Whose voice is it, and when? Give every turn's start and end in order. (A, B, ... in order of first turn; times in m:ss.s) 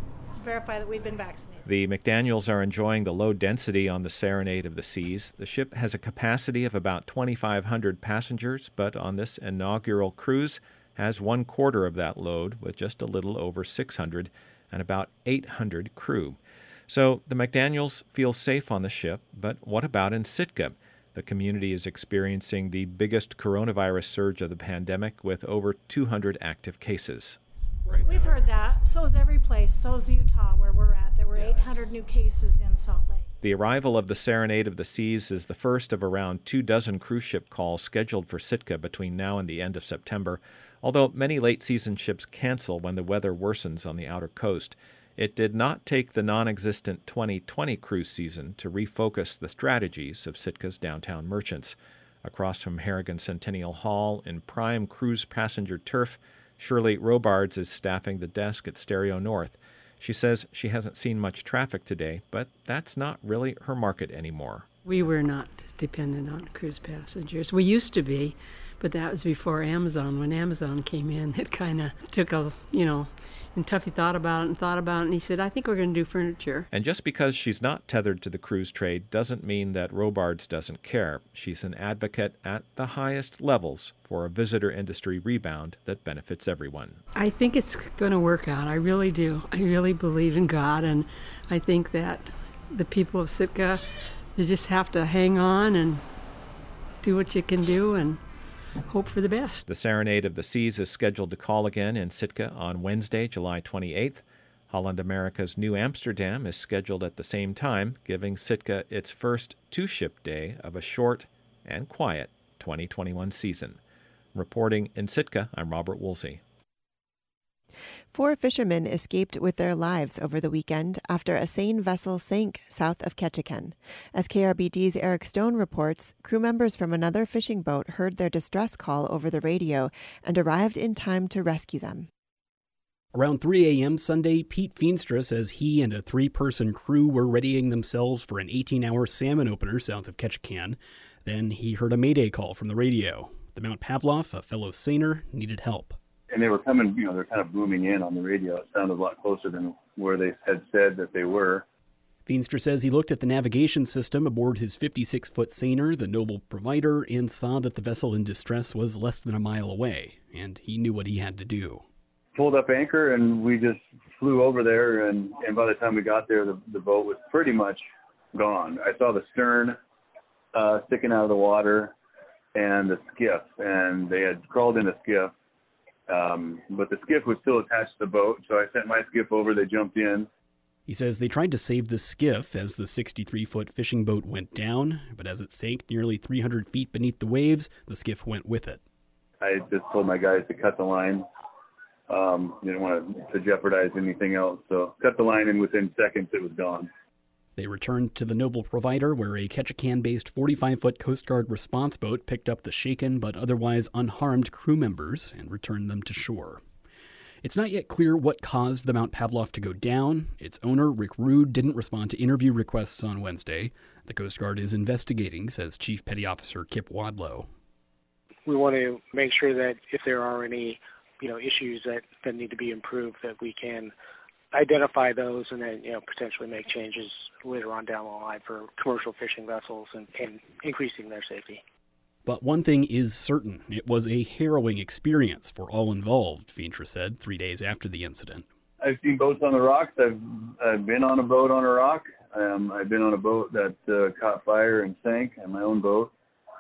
0:00.4-0:01.6 A
0:01.6-0:28.5 B
0:27.9-0:33.2 A
0:31.3-0:31.9 B
0:33.4-1:05.1 B
1:05.0-1:07.9 C
1:08.8-1:12.5 C
1:13.6-1:16.6 C
1:16.7-1:27.0 B
1:27.2-1:31.0 C
1:31.6-1:32.2 C
1:32.9-1:33.8 C
1:34.4-1:36.0 C
1:37.0-1:38.2 C
1:38.9-1:39.6 C
1:39.7-1:53.8 B
1:54.4-1:56.4 B
1:58.1-2:12.1 D
2:13.1-2:26.0 E
2:26.3-2:31.6 F
2:32.3-2:41.8 E
2:42.4-2:47.8 F
2:48.3-2:49.8 F
2:50.6-2:51.9 F
2:52.6-2:55.3 F
2:56.1-3:00.3 F
3:00.9-3:08.8 E
3:09.4-3:11.3 F
3:12.1-3:16.9 F
3:17.6-3:26.6 E
3:27.4-3:37.5 E
3:38.5-3:43.9 G
3:44.5-3:51.6 G
3:52.2-3:58.5 E
3:58.8-4:06.1 F